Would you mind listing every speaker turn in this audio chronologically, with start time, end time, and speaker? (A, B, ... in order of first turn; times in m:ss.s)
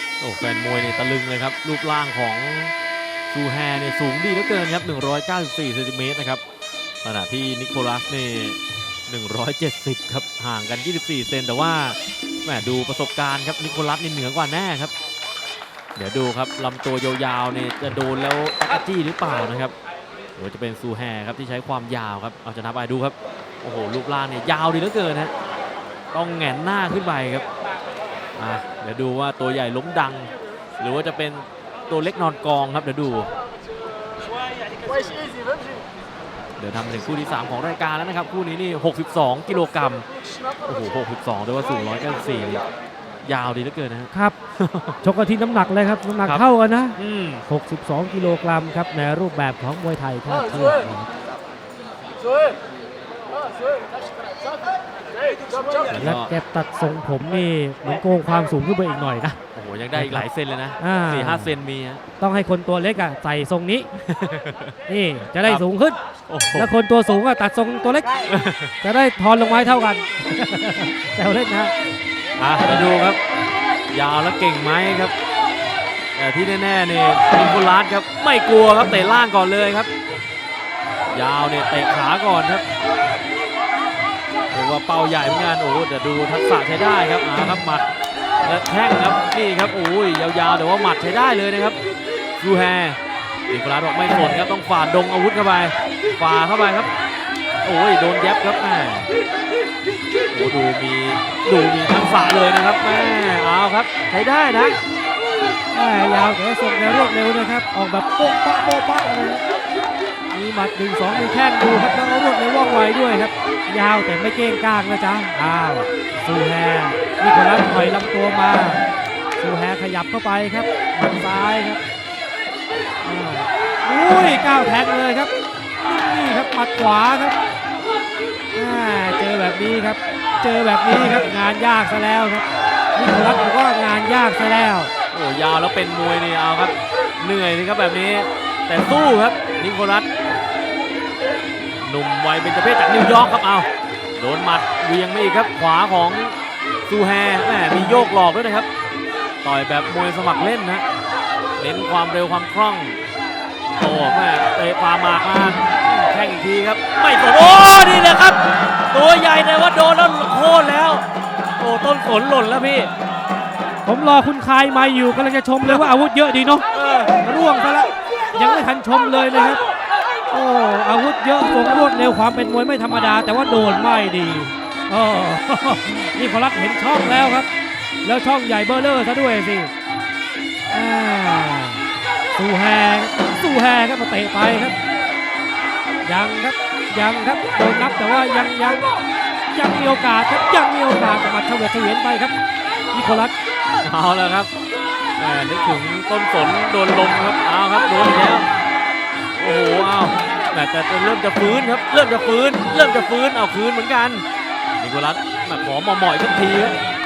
0:00.2-0:02.7 A
0:03.3-0:06.4 A
0:07.0-0:14.9 A
0:16.0-0:19.7 A
0:20.4-0:25.3 A
0:26.1-0:27.4 A
0:28.4-0:33.3 A
0:36.6-0:40.0 A
0:40.6-0:42.6 A
0:43.2-0:45.0 A
0:45.0-0:47.0 B
0:47.0-0:47.4 A
0:47.5-0:51.1 B
0:55.9-0:56.3 A
0:56.0-0:59.4 B
0:59.5-1:02.0 A
0:59.9-1:00.2 B
1:00.8-1:01.5 B
1:02.2-1:03.9 B
1:04.0-1:04.8 A
1:04.9-1:06.0 B
1:06.3-1:06.7 A
1:06.5-1:08.1 B
1:08.3-1:08.7 A
1:08.8-1:11.7 B
1:12.4-1:13.2 A
1:13.9-1:15.1 A
1:16.2-1:19.9 A
1:21.1-1:22.6 A
1:24.5-1:27.9 A
1:28.4-1:31.8 A
1:32.4-1:33.0 A
1:33.5-1:36.9 A
1:37.6-1:39.1 A
1:40.3-1:44.8 A
1:45.7-1:49.4 B
1:50.3-1:58.8 B
1:59.4-2:01.8 B
2:03.0-2:05.3 B
2:05.8-2:07.4 B
2:08.5-2:12.4 B
2:13.0-2:14.9 B
2:15.1-2:20.1 A
2:21.8-2:26.4 A
2:26.9-2:28.7 A
2:29.4-2:30.8 A
2:31.6-2:33.0 A
2:33.8-2:38.4 A
2:38.9-2:41.0 A
2:41.6-2:42.9 A
2:43.8-2:49.6 B
2:46.7-2:47.2 A
2:50.3-2:57.5 B
2:58.0-2:59.7 B
3:00.7-3:01.8 B
3:02.3-3:04.8 B
3:06.0-3:08.8 B
3:09.5-3:12.3 B
3:12.9-3:13.3 B
3:13.8-3:14.5 A
3:15.2-3:18.5 A
3:19.4-3:24.2 A
3:24.8-3:26.8 A